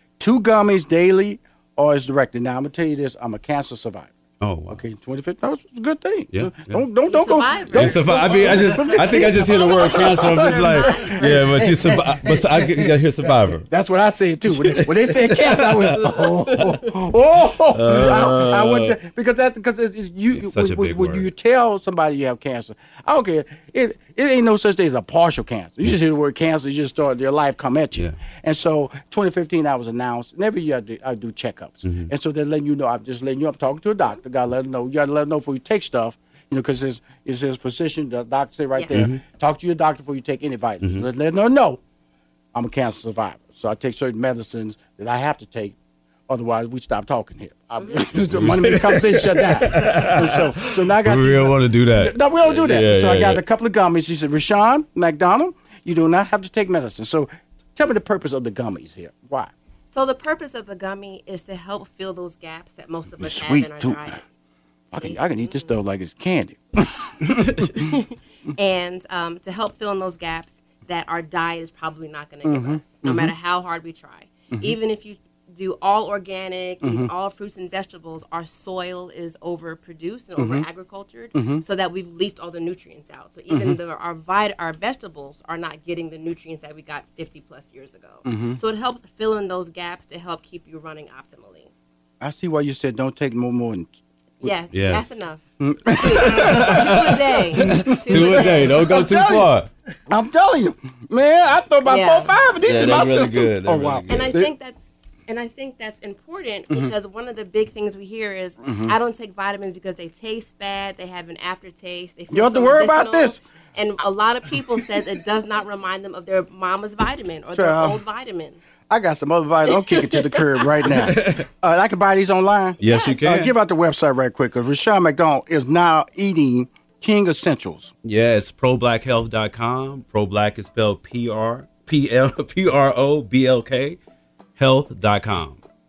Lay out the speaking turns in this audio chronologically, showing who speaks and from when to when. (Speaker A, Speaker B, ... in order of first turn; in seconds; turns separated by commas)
Speaker A: 0.2-4.1, Speaker B: 4.4-4.8, Speaker A: 4.7-12.9, Speaker B: 6.3-6.8, Speaker C: 7.1-12.0, Speaker B: 7.7-13.7, Speaker A: 13.5-41.8, Speaker B: 14.5-16.8, Speaker B: 17.7-19.0, Speaker B: 20.3-21.3, Speaker B: 31.8-32.1, Speaker C: 38.7-39.0, Speaker B: 38.9-39.2, Speaker B: 40.8-41.1, Speaker A: 42.5-45.8, Speaker A: 46.3-59.5, Speaker C: 47.8-48.1, Speaker B: 48.3-53.4, Speaker C: 59.9-64.2, Speaker A: 63.2-64.2, Speaker A: 64.9-67.8, Speaker C: 64.9-65.7, Speaker C: 67.6-91.7, Speaker A: 72.4-73.3, Speaker A: 76.8-77.1, Speaker A: 80.4-80.7, Speaker A: 81.3-81.6, Speaker A: 83.5-83.8, Speaker A: 88.2-88.6, Speaker A: 92.2-94.5, Speaker C: 94.4-98.8, Speaker B: 94.7-95.2, Speaker A: 95.6-99.5, Speaker B: 96.1-99.7, Speaker A: 100.1-104.5, Speaker C: 101.8-102.3, Speaker B: 102.6-104.4, Speaker C: 104.1-118.7, Speaker A: 108.6-108.9, Speaker A: 112.3-113.4, Speaker A: 117.5-118.0, Speaker A: 118.9-127.9, Speaker C: 119.7-120.9, Speaker B: 120.9-121.5, Speaker B: 122.8-123.5, Speaker C: 122.8-123.2, Speaker B: 128.0-134.0, Speaker B: 134.6-135.6